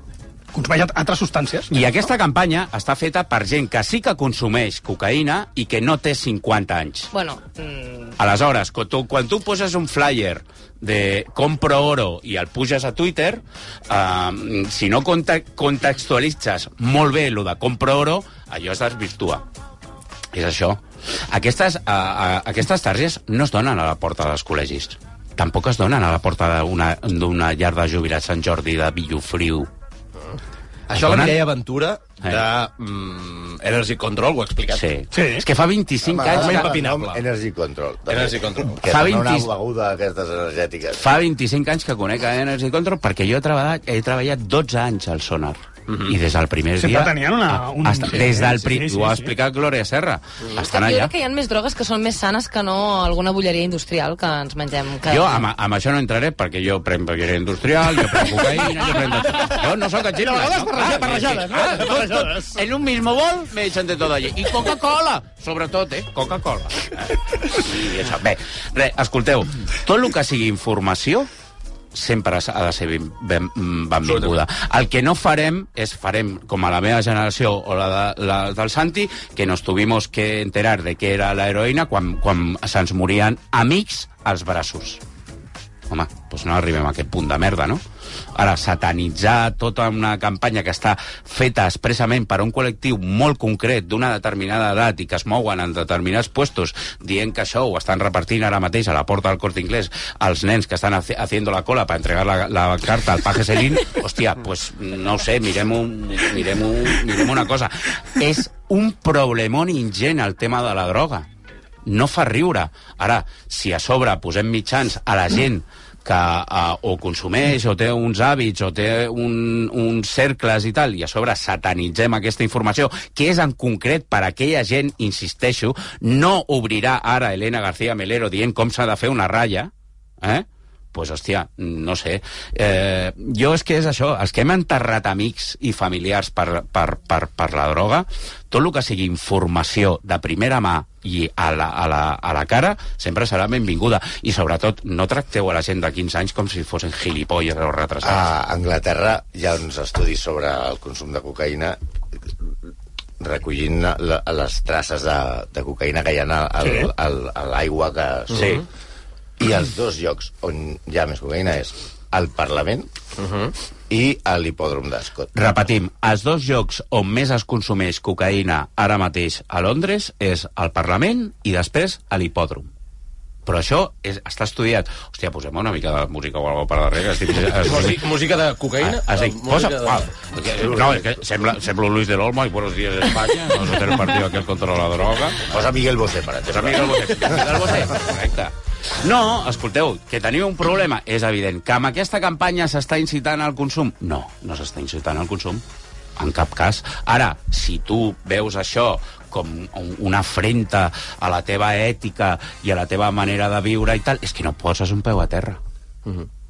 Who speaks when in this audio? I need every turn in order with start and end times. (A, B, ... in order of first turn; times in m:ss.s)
0:00.5-0:02.1 A
0:01.7-0:07.1 B
0:07.1-0:08.2 C
0:08.2-0:19.4 B
0:20.3-0:29.7 B
0:30.9-0:34.8 D
0:30.9-0:31.4 B
0:34.8-0:36.7 B
0:35.1-0:35.5 A
0:36.0-0:41.0 E
0:36.3-0:37.2 D
0:38.1-0:38.8 D
0:38.8-0:39.5 B
0:41.0-0:51.1 B
0:45.9-0:46.1 D
0:46.8-0:49.3 A
0:50.6-0:55.5 C
0:55.1-1:11.3 B
1:00.2-1:02.7 A
1:11.9-1:25.0 B
1:14.0-1:14.3 D
1:25.9-1:27.8 B
1:28.4-1:51.3 B
1:51.8-2:09.7 B
2:10.2-2:28.3 B
2:28.0-2:31.8 E
2:33.2-2:38.6 E
2:36.6-2:36.9 A
2:38.3-2:38.6 D
2:38.3-2:38.6 B
2:39.4-2:42.9 E
2:43.2-2:43.5 D
2:43.9-2:45.6 E
2:45.4-2:52.7 B
2:53.5-2:58.1 B
2:57.5-3:00.1 D
2:58.8-3:05.6 B
3:00.4-3:01.2 E
3:05.5-3:07.7 E
3:06.5-3:15.6 B
3:16.2-3:25.6 B